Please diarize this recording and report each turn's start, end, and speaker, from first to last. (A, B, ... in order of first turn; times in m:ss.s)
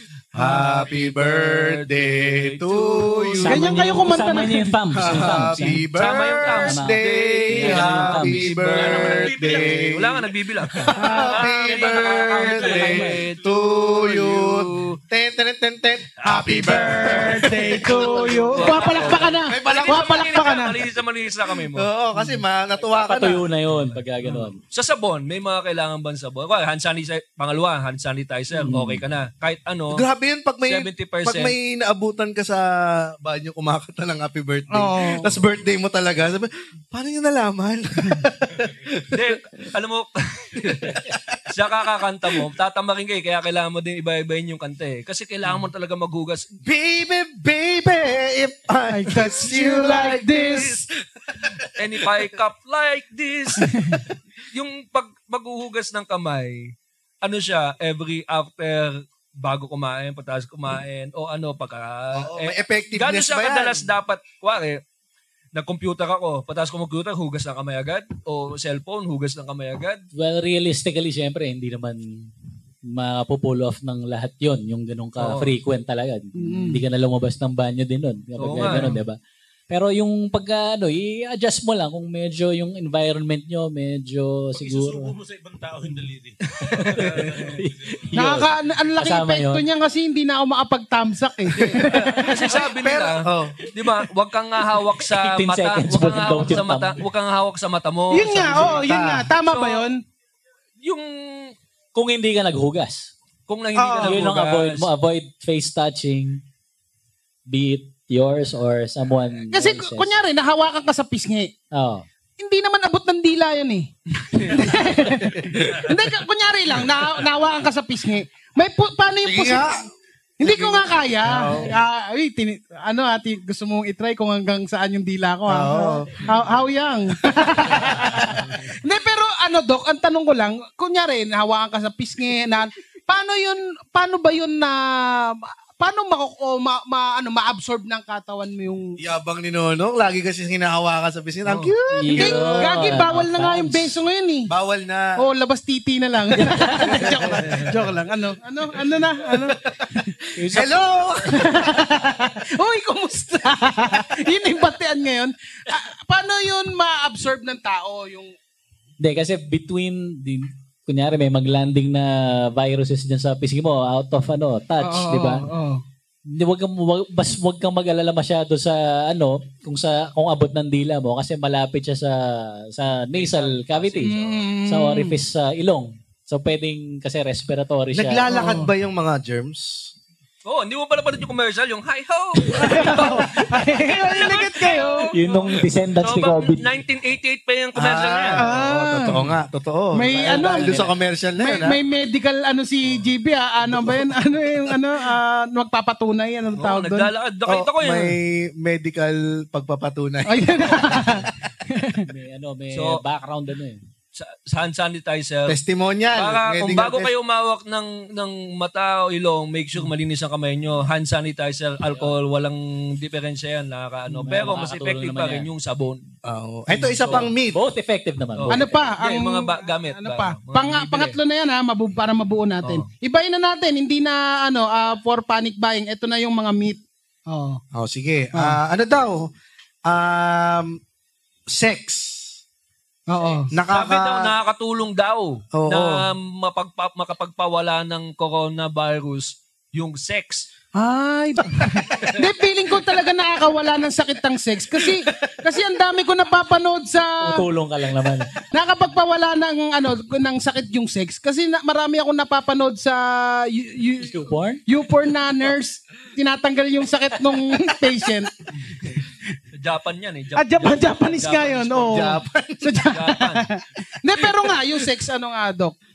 0:00.4-0:03.6 A
0:00.4-0:03.9 B
0:03.4-0:05.8 C
0:03.5-0:04.7 D
0:05.0-0:10.3 A
0:05.9-0:15.0 B
0:06.6-0:07.0 C
0:07.5-0:08.6 C
0:10.8-0:20.5 A
0:11.0-0:11.4 D
0:12.5-0:13.2 C
0:16.2-0:21.9 B
0:16.2-0:20.8 D
0:21.7-0:23.4 A
0:22.8-0:24.0 B
0:23.1-0:24.6 C
0:24.7-0:30.0 B
0:28.6-0:29.0 D
0:29.9-0:39.3 A
0:30.6-0:31.5 B
0:34.7-0:35.4 D
0:39.1-0:46.4 B
0:40.6-0:41.4 A
0:46.6-0:52.1 A
0:48.9-0:50.8 D
0:50.4-0:50.7 B
0:51.8-0:54.0 B
0:53.6-0:54.0 D
0:54.5-1:04.8 B
1:02.1-1:03.9 A
1:05.5-1:10.0 B
1:10.1-1:12.3 C
1:12.9-1:19.2 C
1:15.2-1:15.5 B
1:16.4-1:16.8 D
1:18.4-1:19.0 B
1:18.7-1:19.0 D
1:19.7-1:25.1 C
1:24.6-1:28.1 E
1:26.6-1:27.5 B
1:27.0-1:28.5 C
1:28.1-1:32.5 D
1:29.0-1:29.6 C
1:31.6-1:33.6 A
1:31.7-1:38.9 B
1:35.1-1:37.0 C
1:38.1-1:40.0 D
1:38.6-1:39.3 A
1:39.4-1:39.9 B
1:40.8-1:41.5 B
1:42.0-1:43.1 C
1:43.5-1:44.9 B
1:43.8-1:44.2 D
1:44.0-1:46.4 C
1:47.5-1:50.1 C
1:49.5-1:51.5 D
1:51.7-1:52.0 C
1:52.4-1:59.7 D
1:54.3-1:54.7 B
1:55.2-1:55.8 A
1:59.2-1:59.9 A
2:00.4-2:19.0 D
2:00.4-2:01.8 A
2:05.5-2:06.2 A
2:19.0-2:23.0 A
2:21.5-2:21.7 B
2:22.0-2:24.0 C
2:22.1-2:24.5 D
2:24.5-2:25.2 A
2:25.2-2:30.1 D
2:26.5-2:26.9 C
2:26.9-2:27.6 A
2:27.3-2:27.7 B
2:29.3-2:29.9 A
2:30.4-2:30.8 C
2:30.5-2:31.6 A
2:31.3-2:38.3 D
2:39.0-2:45.4 C
2:44.8-2:45.8 D
2:46.3-2:54.1 C
2:53.1-2:54.5 B
2:54.0-2:55.1 D
2:54.6-2:58.3 C
2:57.9-2:59.9 A
2:58.3-2:58.7 D
3:00.4-3:08.4 B
3:02.5-3:05.1 D
3:05.1-3:06.6 C
3:07.8-3:11.8 A
3:08.4-3:09.2 D
3:09.9-3:10.8 D
3:10.1-3:10.9 C
3:11.4-3:17.1 D
3:13.7-3:14.1 A
3:16.6-3:18.2 B
3:17.5-3:21.2 A
3:20.3-3:22.0 D
3:22.1-3:23.8 C
3:22.7-3:23.0 B
3:24.1-3:25.6 B
3:25.5-3:27.1 A
3:26.1-3:36.0 B
3:34.1-3:35.5 C
3:36.2-3:37.6 A
3:36.7-3:37.3 B
3:37.1-3:38.7 C
3:38.4-3:41.2 B
3:38.5-3:47.6 D
3:47.7-3:49.3 A
3:49.9-3:50.8 A
3:51.5-3:52.4 A
3:53.1-3:53.5 D
3:53.4-4:00.5 B
3:53.5-3:54.3 A
3:55.5-3:56.0 A
4:00.8-4:07.4 D
4:07.2-4:08.3 C
4:08.5-4:19.0 D
4:14.0-4:14.6 C
4:19.5-4:22.2 B
4:20.4-4:25.8 D
4:21.9-4:22.8 A
4:22.9-4:23.5 B